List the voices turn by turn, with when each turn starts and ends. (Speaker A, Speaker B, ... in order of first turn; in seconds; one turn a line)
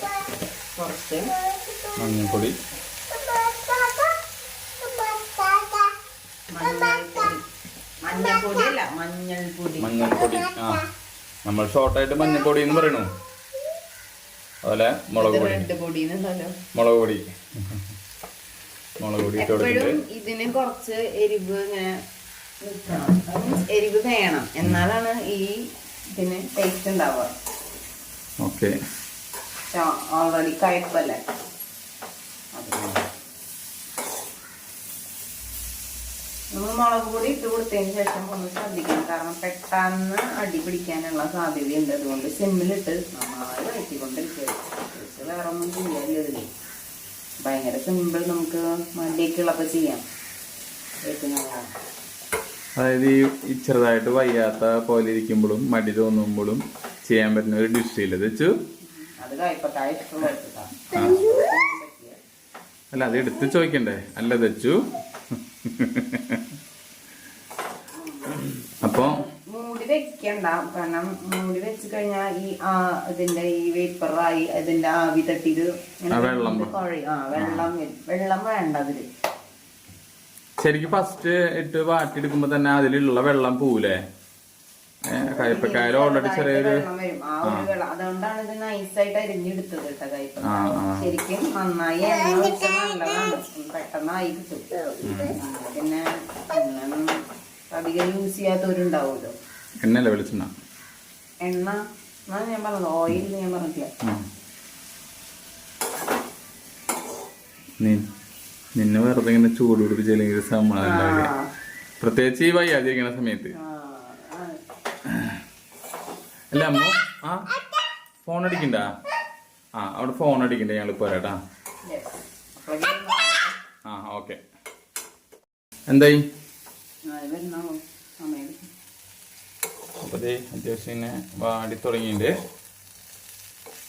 Speaker A: 0.8-1.3
Speaker B: 1.9-2.6
Speaker A: 6.5-7.4
Speaker A: 8.0-10.1
Speaker B: 9.8-10.9
Speaker B: 11.5-13.1
Speaker B: 14.6-15.7
Speaker A: 15.2-16.6
Speaker B: 16.7-17.8
Speaker B: 19.0-19.9
Speaker A: 19.3-21.9
Speaker A: 22.6-25.5
Speaker A: 26.1-27.3
Speaker B: 28.4-28.7
Speaker A: 29.7-31.2
Speaker A: 32.5-33.0
Speaker A: 36.5-46.5
Speaker A: 47.5-50.0
Speaker A: 51.1-51.7
Speaker B: 52.8-58.5
Speaker A: 58.8-62.2
Speaker B: 60.9-61.2
Speaker B: 62.9-66.5
Speaker A: 68.0-79.1
Speaker B: 68.3-69.2
Speaker B: 76.1-76.7
Speaker B: 77.3-77.7
Speaker B: 80.6-84.0
Speaker B: 85.1-86.8
Speaker A: 85.2-94.7
Speaker B: 87.5-87.7
Speaker B: 90.4-91.2
Speaker B: 95.0-95.4
Speaker A: 95.3-99.3
Speaker B: 99.8-100.5
Speaker A: 101.4-101.8
Speaker A: 102.3-103.9
Speaker B: 107.8-108.1
Speaker B: 108.8-111.3
Speaker A: 110.8-111.5
Speaker B: 112.0-113.5
Speaker A: 113.6-114.6
Speaker B: 115.0-115.4
Speaker B: 116.5-117.5
Speaker B: 118.2-118.9
Speaker B: 119.8-121.4
Speaker A: 121.9-123.5
Speaker B: 123.9-124.4
Speaker B: 125.9-126.2
Speaker A: 127.1-128.7
Speaker B: 130.0-132.3